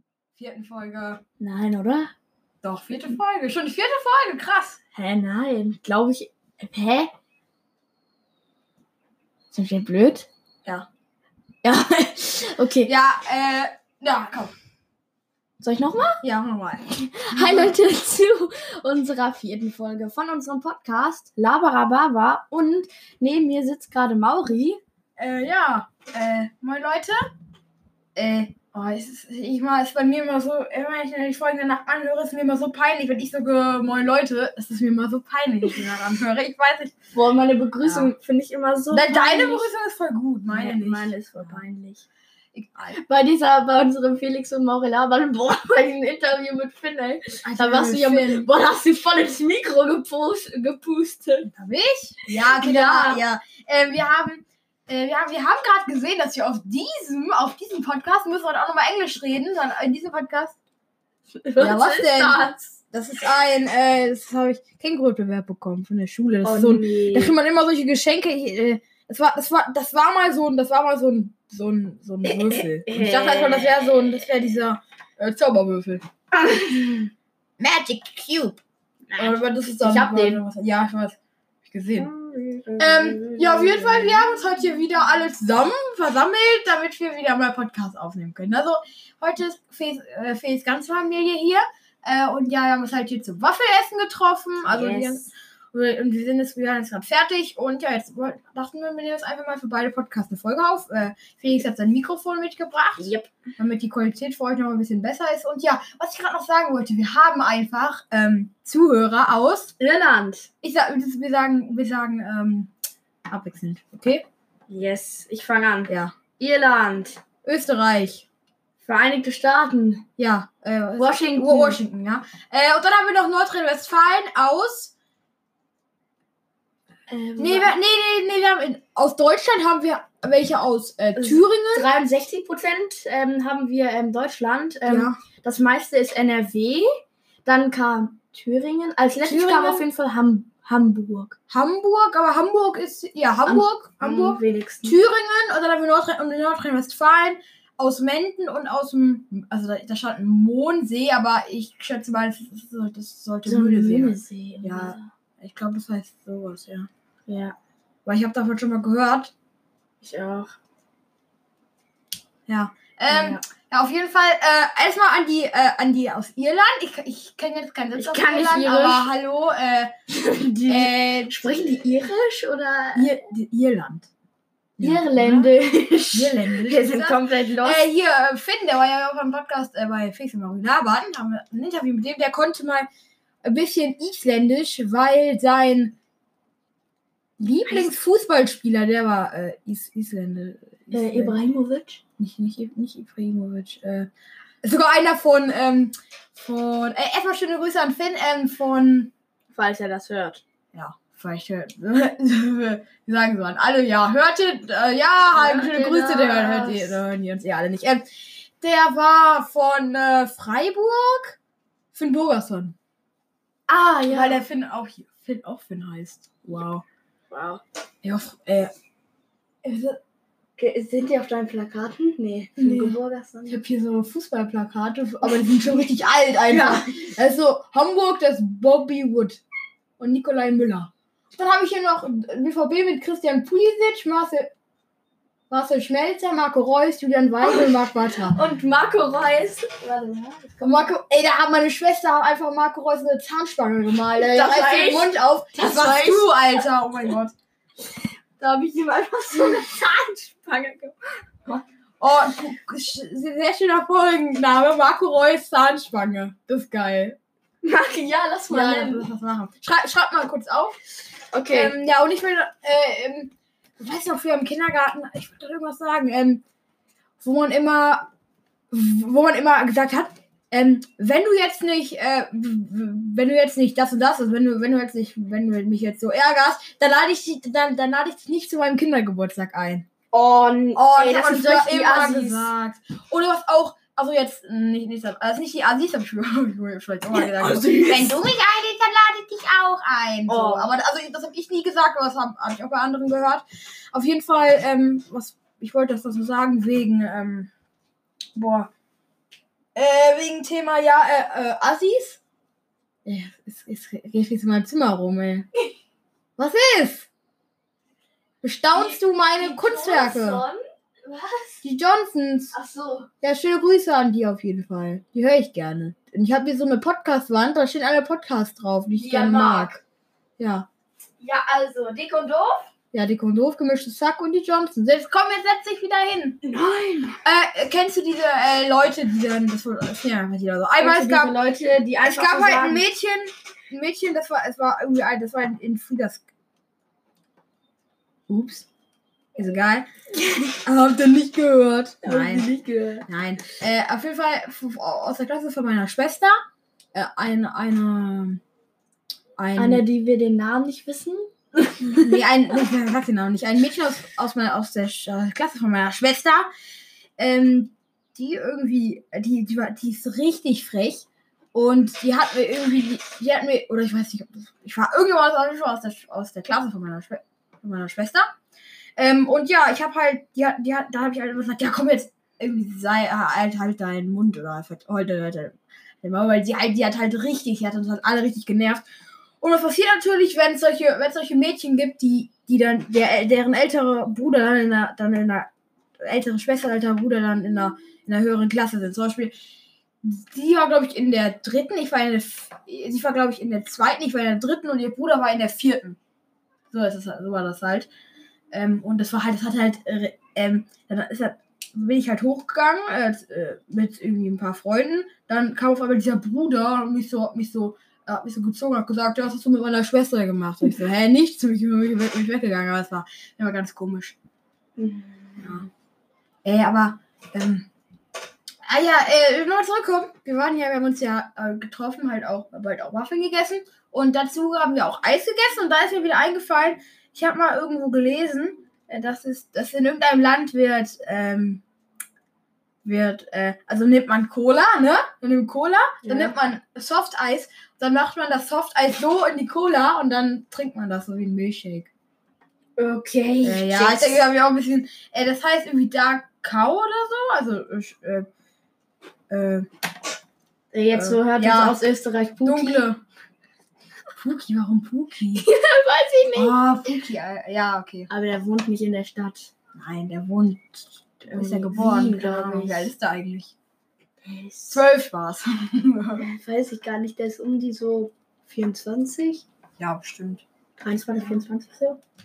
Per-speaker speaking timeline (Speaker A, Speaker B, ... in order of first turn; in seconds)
Speaker A: 0.3-1.2, 2.6-4.8, 12.8-14.5, 16.2-17.7, 25.2-27.2, 28.1-36.9, 37.8-38.1, 38.9-41.6, 42.5-43.0, 47.4-48.5, 51.4-60.6, 61.6-76.0, 77.6-78.6, 79.2-82.1, 82.8-109.7, 110.6-112.7, 113.3-114.2, 115.9-116.1, 117.4-118.2, 120.2-124.9, 127.4-131.9, 134.8-135.2, 139.2-139.8, 141.5-156.9, 158.0-159.3, 162.5-169.9, 170.7-171.6, 172.9-174.1, 174.8-175.5, 176.1-182.9, 183.4-185.9, 187.4-191.4, 192.2-194.1, 194.6-199.1, 200.7-211.4, 211.9-212.8, 214.1-216.8, 218.0-218.7, 219.6-220.0, 222.6-229.4, 230.0-234.5, 235.5-238.4, 240.6-247.3, 252.0-257.2, 258.5-260.8, 261.5-266.4, 267.2-268.1, 268.7-279.9, 280.8-297.5, 298.3-298.7, 299.7-302.2, 303.0-305.5, 306.4-307.1, 308.4-310.4, 311.6-312.5, 313.2-319.8, 320.4-320.7, 322.9-326.4, 327.2-331.4, 332.0-336.2, 338.3-338.7, 339.4-339.9, 340.6-342.5, 343.1-346.4, 346.9-348.4, 349.4-349.8, 352.0-356.5, 357.2-368.3, 369.0-378.8, 379.4-389.3, 390.0-396.0, 396.7-397.9, 398.5-414.1, 415.4-415.7, 416.4-417.7, 418.7-431.6, 432.8-441.9, 443.4-448.3, 449.3-449.7, 450.9-451.9, 452.4-453.0, 454.2-455.5, 456.3-458.1, 459.7-463.5, 464.7-466.3, 469.8-470.4
Speaker B: 1.4-2.1, 4.9-7.1, 9.5-10.3, 11.6-12.9, 15.6-16.2, 16.9-24.8, 37.1-39.7, 40.5-42.0, 42.9-51.5, 52.4-53.2, 61.4-62.8, 66.4-67.3, 72.2-74.1, 76.3-77.1, 79.1-80.4, 81.9-84.2, 94.6-95.3, 103.0-103.3, 109.8-110.5, 114.7-117.2, 118.8-120.0, 121.0-121.8, 127.1-127.7, 131.2-141.3, 143.4-145.0, 153.4-155.1, 157.3-157.5, 160.0-160.5, 163.1-163.4, 167.9-169.1, 170.1-173.1, 174.8-177.8, 187.6-187.9, 190.9-192.0, 199.5-200.4, 205.3-207.0, 213.7-214.4, 217.3-217.6, 220.6-223.6, 225.2-225.8, 226.5-226.9, 237.4-240.9, 244.2-246.3, 248.4-251.6, 257.6-259.1, 261.3-261.7, 280.1-282.5, 287.1-288.2, 290.3-290.7, 308.7-311.6, 312.5-313.1, 319.0-319.8, 321.2-322.7, 326.4-327.2, 330.8-332.8, 342.0-343.1, 349.5-352.0, 414.8-415.6, 436.0-436.3, 442.8-444.2, 450.7-452.9, 455.4-456.6, 458.1-459.5, 461.3-462.9, 464.2-464.8, 466.2-469.4, 470.8-472.0